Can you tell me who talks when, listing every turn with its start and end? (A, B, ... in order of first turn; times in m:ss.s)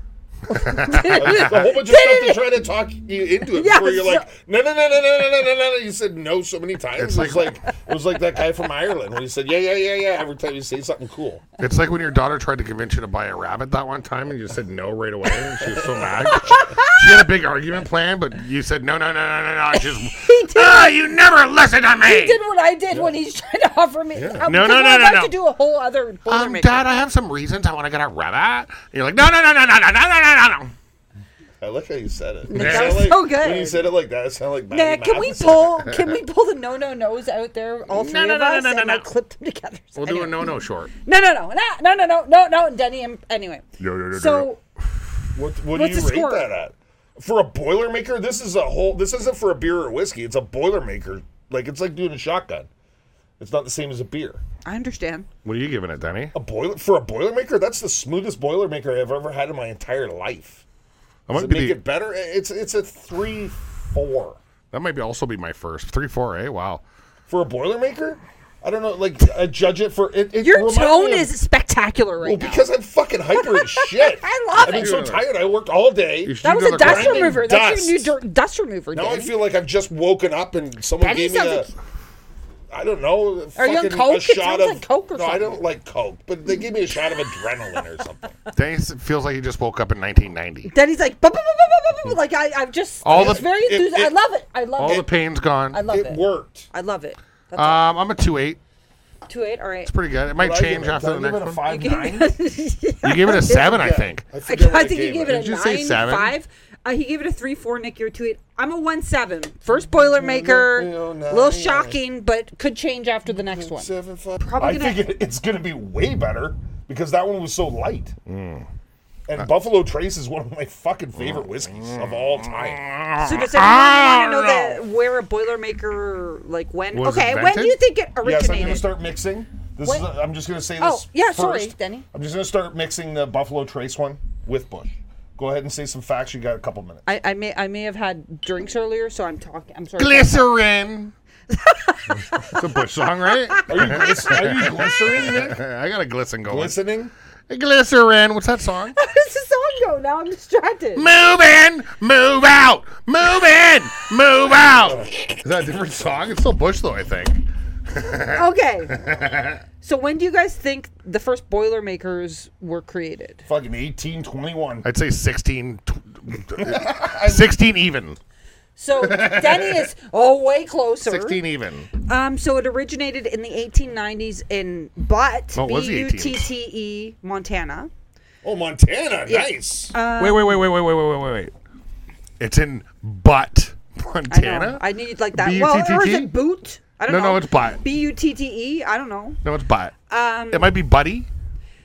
0:00.5-0:02.4 A
0:00.5-0:01.7 B
0:01.1-0:11.4 C
0:03.5-0:04.3 A
0:07.0-0:07.6 B
0:11.6-0:22.4 B
0:15.6-0:16.1 C
0:16.2-0:17.2 A
0:19.7-0:21.0 A
0:22.0-0:26.9 A
0:24.2-0:24.5 C
0:24.4-0:25.3 B
0:26.3-0:30.7 B
0:31.6-0:35.8 C
0:32.5-0:33.9 A
0:32.5-0:33.2 B
0:34.7-0:40.5 A
0:37.9-0:39.0 B
0:39.9-0:40.9 B
0:41.0-0:44.6 A
0:43.8-0:44.4 C
0:44.1-0:44.4 B
0:45.3-0:52.7 C
0:45.7-0:46.5 A
0:53.4-0:54.4 C
0:54.6-0:55.3 A
0:55.4-0:56.3 B
0:56.3-1:00.6 C
1:01.3-1:01.8 B
1:01.3-1:04.4 C
1:04.7-1:06.8 B
1:07.3-1:11.3 C
1:10.4-1:12.6 A
1:12.2-1:18.1 C
1:13.3-1:15.1 A
1:14.5-1:15.2 B
1:16.2-1:17.4 B
1:16.4-1:19.3 A
1:18.9-1:21.7 C
1:21.0-1:21.7 A
1:22.7-1:28.3 C
1:23.6-1:25.6 A
1:28.5-1:30.7 B
1:30.7-1:35.1 A
1:33.0-1:33.4 B
1:33.0-1:34.2 C
1:34.8-1:35.8 B
1:34.8-1:35.1 C
1:35.7-1:37.8 A
1:35.8-1:36.7 C
1:37.6-1:38.6 B
1:39.3-1:39.9 A
1:39.8-1:41.6 B
1:40.4-1:42.3 C
1:41.6-1:43.9 A
1:43.0-1:44.2 B
1:43.5-1:45.4 C
1:44.4-1:55.0 A
1:45.3-1:46.3 B
1:50.1-1:52.0 C
1:53.3-1:58.1 C
1:58.2-1:58.7 B
1:59.3-2:02.8 C
2:01.2-2:04.8 B
2:03.2-2:08.9 A
2:06.9-2:07.8 B
2:08.2-2:17.0 C
2:10.8-2:12.0 A
2:17.0-2:20.5 A
2:20.0-2:21.1 B
2:21.5-2:24.4 A
2:22.5-2:26.7 B
2:23.7-2:25.6 C
2:26.5-2:27.1 C
2:27.5-2:29.0 B
2:28.9-2:31.1 A
2:30.9-2:39.6 B
2:34.5-2:35.2 C
2:38.3-2:39.0 A
2:39.8-2:43.4 A
2:43.4-2:44.9 C
2:44.8-2:48.2 B
2:46.6-2:47.5 C
2:48.8-2:51.4 A
2:49.1-2:49.7 B
2:51.1-2:51.9 B
2:52.0-2:57.9 A
2:55.5-2:56.4 B
2:58.4-2:59.9 C
2:59.2-3:00.6 A
3:00.2-3:01.5 B
3:02.4-3:06.3 B
3:04.3-3:09.4 A
3:07.0-3:07.8 B
3:09.4-3:09.9 B
3:10.1-3:10.7 A
3:10.5-3:11.3 B